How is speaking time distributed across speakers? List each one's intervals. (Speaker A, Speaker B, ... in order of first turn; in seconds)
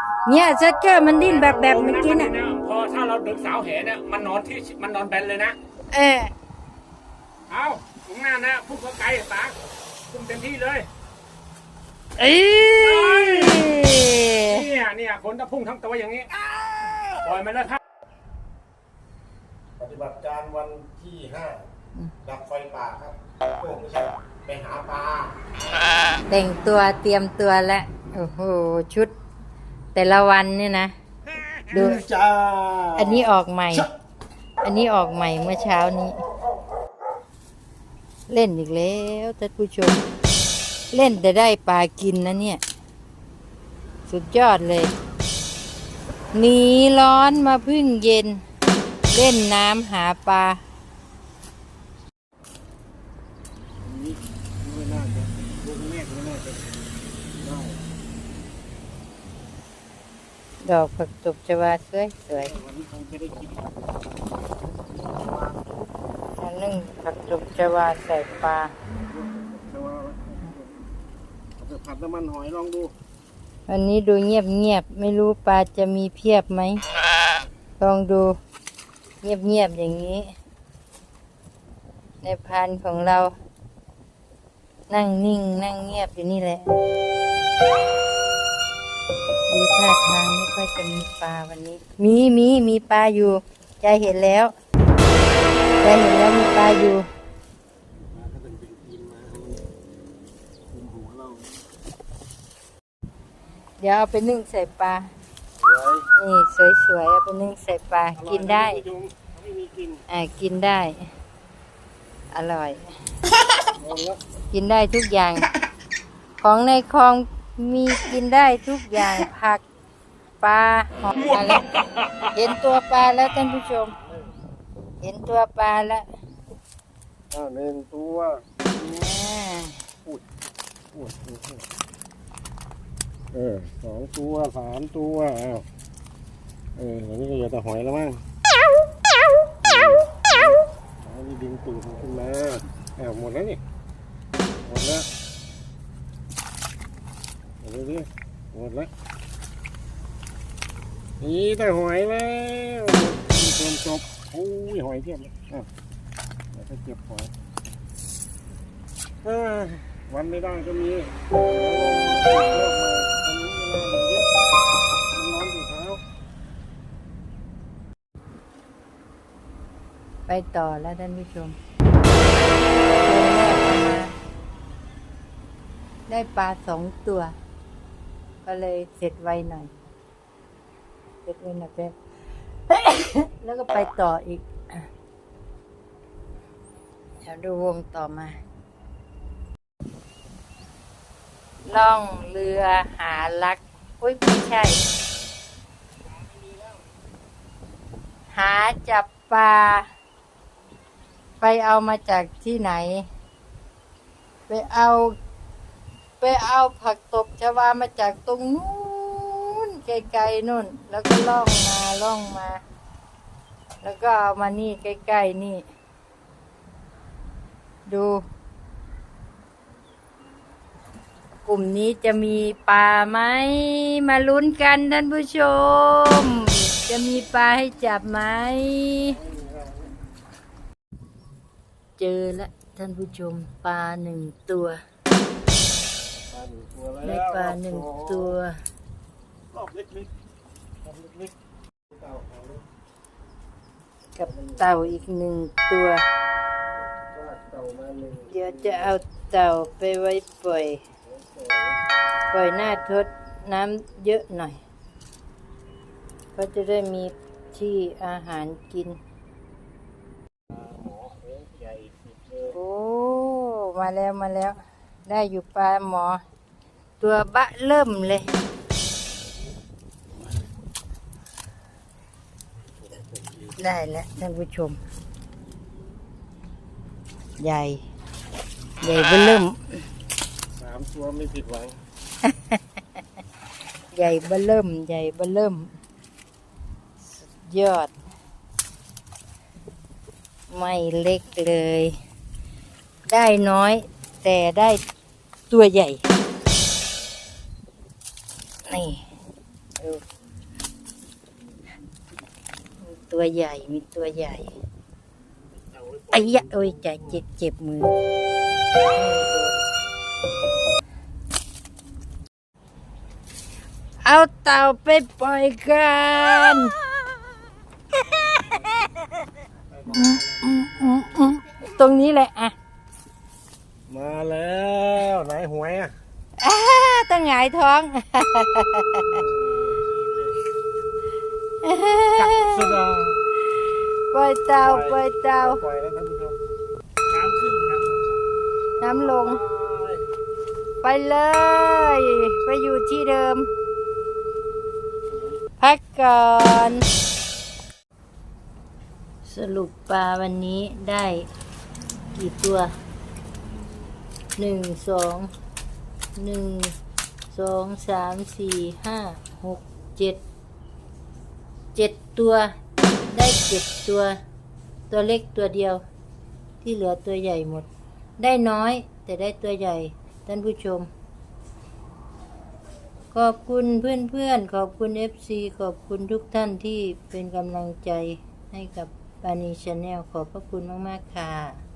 Speaker A: 0.2-2.3, 5.9-6.3, 12.2-14.6, 26.3-29.1, 29.9-30.9, 31.7-32.1, 33.0-33.9, 34.6-36.2, 38.3-40.0, 40.9-42.6, 44.1-44.9, 46.3-48.4, 49.1-50.6, 60.6-62.5, 66.4-68.7, 73.7-76.8, 77.8-78.4, 79.2-80.3, 82.2-83.3, 84.9-86.7, 89.5-94.5, 95.8-97.1, 103.8-105.1, 106.2-108.8, 110.1-111.1, 112.3-112.9, 114.5-115.4, 116.4-119.6, 120.4-121.6, 122.3-123.9, 125.0-126.1, 128.8-129.8, 170.3-171.6, 172.9-174.1, 176.1-177.3, 178.4-179.7, 181.2-181.9, 182.7-184.9, 187.2-188.4, 191.7-194.8, 198.3-199.8, 201.4-203.1, 204.5-205.1, 206.2-212.6, 213.8-215.6, 217.9-218.2, 221.4-229.2, 232.0-234.8, 237.0-238.6, 244.2-246.0, 248.3-250.8, 252.3-254.6, 256.3-259.0, 262.5-266.2, 267.0-268.3, 273.6-274.8, 277.4-277.8, 278.8-279.8, 282.2-282.6, 283.9-285.7, 287.0-287.9, 290.5-291.9, 293.1-294.8, 295.5-296.0, 298.7-299.0, 302.8-304.5, 306.1-307.9, 308.9-309.6, 314.0-316.7, 319.9-322.5, 326.4-329.2, 331.6-332.8, 334.1-335.6, 338.8-339.4, 340.8-343.5, 345.6-346.8, 349.2-351.3, 352.1-352.7, 354.4-355.3, 356.2-356.7, 357.3-360.2, 361.7-362.5, 363.0-364.2, 364.9-365.8, 366.6-370.9, 373.1-381.6
Speaker B: 1.3-5.5, 7.5-9.5, 10.1-10.9, 12.8-13.8, 14.4-16.3, 17.2-17.8
Speaker C: 19.8-21.6, 22.2-25.4, 31.7-33.3, 53.8-56.6, 57.4-57.8, 62.5-63.6, 65.0-65.7, 69.1-70.7, 71.6-72.9, 98.0-99.6, 100.7-101.5, 105.6-106.1, 108.2-110.0, 113.8-114.2, 127.3-128.4, 130.9-131.6, 133.3-135.7, 136.8-138.2, 139.6-143.6, 144.6-145.1, 147.6-148.9, 151.2-155.7, 156.5-157.3, 159.2-164.3, 165.1-166.0, 229.1-229.9, 236.1-238.3, 239.5-240.1, 240.8-241.3, 241.9-242.6, 244.2-244.6, 247.1-248.8, 251.1-251.8, 260.5-262.5, 273.0-273.3, 280.5-281.8, 305.8-306.6, 319.7-321.1, 323.9-325.9, 329.1-330.3, 332.2-333.2, 334.6-336.4, 337.2-338.0, 338.9-340.1